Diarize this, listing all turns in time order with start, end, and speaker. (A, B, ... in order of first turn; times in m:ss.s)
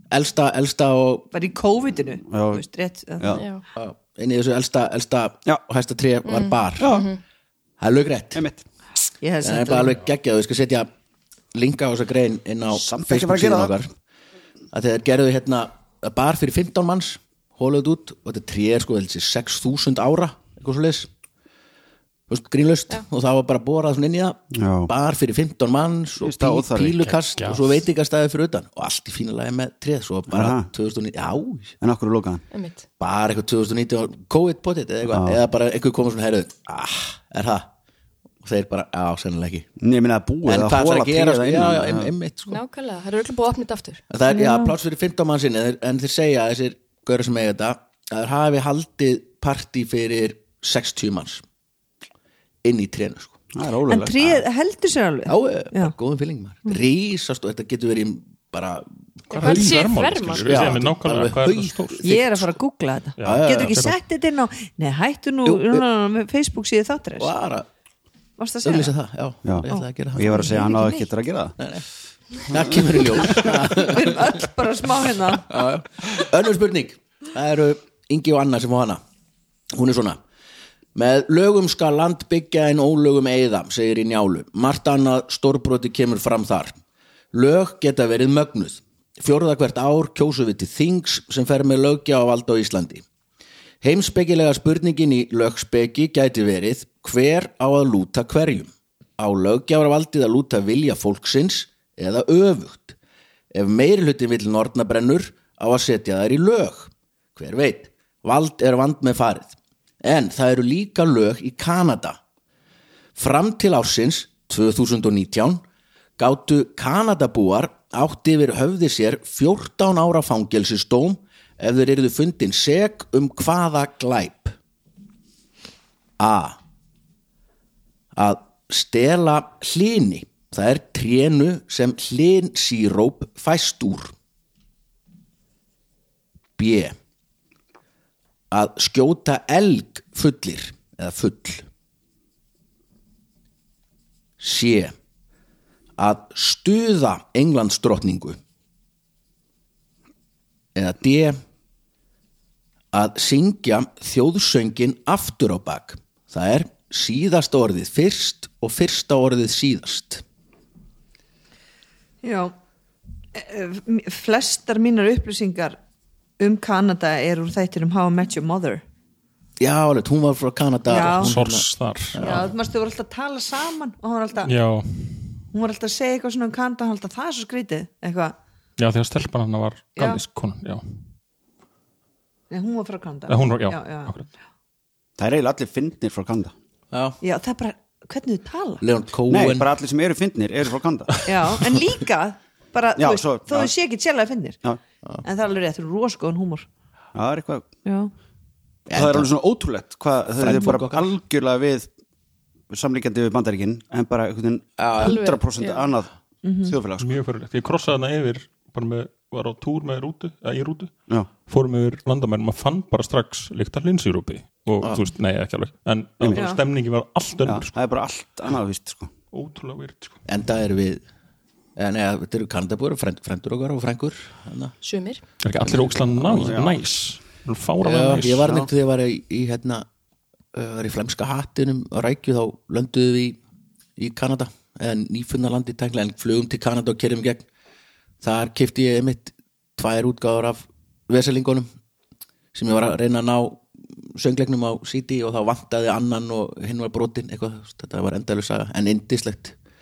0:00.1-0:01.3 A
0:01.3-0:03.4 B
0:02.3-0:02.6 C
0:03.3-0:03.6 D
0:03.8-0:07.0 A
0:06.2-0:07.2 D
0:06.8-0:07.1 C
0:07.8-0:08.4 A
0:08.3-0:08.6 C
0:09.2-0:10.0 B
0:09.4-0:10.9 A
0:11.5-0:13.9 A
0:12.7-0:13.7 C
0:14.7-0:21.1 A
0:22.3-0:31.8 A
0:24.5-0:24.9 C
0:26.2-0:27.0 C
0:27.2-0:27.7 E
0:30.3-0:30.7 C
0:31.8-0:32.4 C
0:32.5-0:32.8 D
0:33.0-0:37.7 A
0:35.1-0:35.4 C
0:38.4-0:39.7 A
0:39.8-0:42.1 C
0:40.4-0:42.6 A
0:42.5-0:44.0 D
0:44.1-0:51.4 A
0:44.3-0:44.7 B
0:52.6-0:53.4 A
0:53.5-0:54.4 C
0:53.9-0:55.9 B
0:55.3-0:58.9 A
0:59.3-1:00.8 D
0:59.3-1:02.2 E
0:59.4-0:59.7 A
1:00.4-1:02.4 A
1:02.0-1:07.3 B
1:03.2-1:04.0 E
1:03.2-1:03.8 A
1:05.4-1:05.8 A
1:07.2-1:07.7 A
1:08.4-1:08.9 B
1:08.6-1:10.7 A
1:09.4-1:11.6 C
1:09.6-1:11.1 B
1:11.6-1:11.8 A
1:12.4-1:14.4 A
1:13.4-1:15.5 B
1:15.4-1:19.0 A
1:19.7-1:20.2 A
1:20.9-1:26.8 A
1:27.3-1:33.0 A
1:33.8-1:43.0 A
1:43.5-1:52.2 A
1:53.2-1:55.6 A
1:56.2-2:04.6 A
2:06.2-2:06.6 A
2:08.1-2:14.1 A
2:16.6-2:16.9 A
2:18.5-2:21.6 A
2:24.4-2:24.9 A
2:26.0-2:28.4 A
2:30.7-2:31.4 A
2:32.9-2:40.2 A
2:42.2-2:42.5 B
2:43.3-2:45.8 B
2:46.4-2:48.8 B
2:49.6-2:52.5 A
2:50.9-2:51.4 B
2:51.0-2:52.5 E
2:52.2-2:54.5 B
2:54.4-2:55.4 E
2:55.5-2:58.4 B
2:58.8-3:00.8 E
3:00.0-3:00.2 B
3:02.5-3:04.1 B
3:03.3-3:04.2 E
3:05.2-3:06.5 C
3:06.9-3:07.2 A
3:07.2-3:08.8 B
3:08.8-3:09.7 A
3:09.3-3:11.3 C
3:11.2-3:14.6 B
3:13.0-3:13.7 C
3:15.2-3:16.7 B
3:17.1-3:17.6 C
3:17.8-3:18.1 B
3:18.9-3:19.3 A
3:18.9-3:21.9 C
3:20.4-3:21.1 A
3:22.7-3:26.1 C
3:24.8-3:25.2 A
3:25.0-3:25.9 D
3:26.4-3:26.8 B
3:26.6-3:27.1 C
3:27.0-3:37.7 E
3:36.2-3:36.5 C
3:36.3-3:36.6 B
3:37.4-3:39.1 C
3:39.3-3:40.2 E
3:40.2-3:41.0 A
3:41.8-3:44.8 A
3:44.8-3:45.2 D
3:45.4-3:48.7 E
3:45.6-3:46.6 A
3:46.4-3:46.7 C
3:47.8-3:49.8 A
3:50.5-3:53.4 A
3:54.0-3:57.4 A
3:58.2-4:01.7 A
4:02.5-4:09.6 A